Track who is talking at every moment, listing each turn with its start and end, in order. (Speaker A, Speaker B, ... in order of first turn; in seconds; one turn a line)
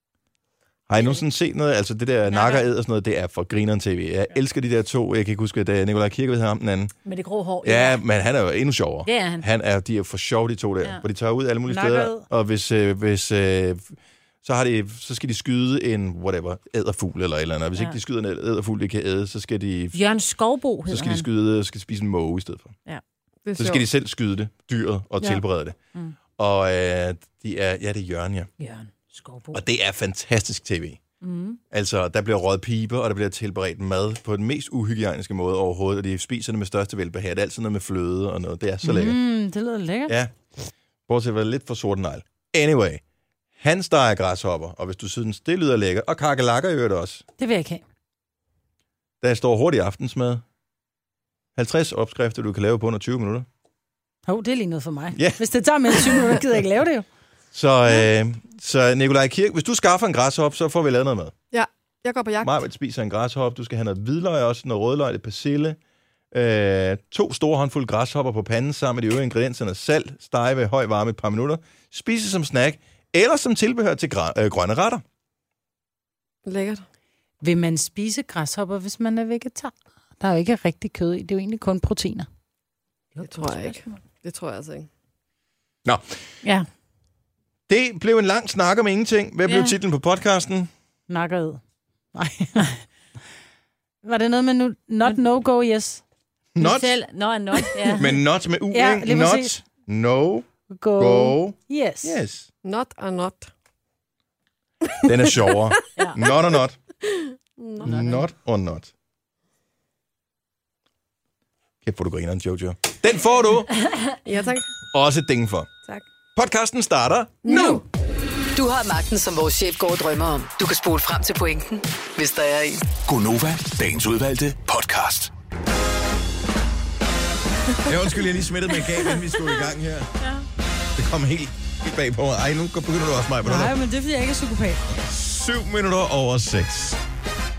Speaker A: 0.9-6.9
Speaker B: 0.9-1.2
Speaker B: 2.3-2.6
Speaker B: 7.0-8.0
Speaker A: 7.6-19.9
Speaker B: 9.1-9.4
Speaker C: 11.7-12.2
Speaker B: 19.9-21.3
Speaker A: 20.9-22.7
Speaker D: 23.4-23.8
Speaker A: 23.6-25.8
Speaker A: 26.4-28.5
Speaker B: 28.6-29.6
Speaker A: 29.5-31.0
Speaker B: 31.2-31.6
Speaker A: 31.7-39.2
Speaker C: 38.8-40.1
Speaker A: 40.1-40.3
Speaker A: 41.1-43.0
Speaker A: 43.6-47.2
Speaker C: 47.4-47.8
Speaker A: 49.2-50.4
Speaker A: 51.5-53.5
Speaker C: 54.3-57.0
Speaker A: 55.1-55.4
Speaker A: 57.5-61.3
Speaker D: 61.5-62.6
Speaker A: 62.4-65.8
Speaker A: 66.3-75.0
Speaker D: 76.5-76.8
Speaker C: 77.4-82.3
Speaker B: 83.1-83.9
Speaker D: 83.2-84.9
Speaker A: 85.8-86.2
Speaker A: 87.7-90.7
Speaker B: 89.5-89.7
Speaker C: 91.1-91.6
Speaker C: 92.1-92.8
Speaker C: 94.0-96.0
Speaker A: 96.5-97.0
Speaker B: 96.6-98.2
Speaker A: 98.0-102.5
Speaker C: 98.7-99.6
Speaker C: 100.7-102.2
Speaker D: 102.6-103.5
Speaker D: 104.8-105.7
Speaker A: 105.0-106.8
Speaker D: 107.0-108.0
Speaker A: 107.8-108.9
Speaker C: 107.9-108.2
Speaker A: 111.8-113.7
Speaker D: 114.2-114.7
Speaker A: 114.9-115.7
Speaker A: 116.3-117.8
Speaker D: 117.4-117.8
Speaker E: 118.5-122.8
Speaker F: 123.0-125.3
Speaker A: 127.8-130.1
Speaker B: 130.2-130.4
Speaker A: 130.9-133.8
Speaker C: 133.4-134.8
Speaker A: 135.0-137.0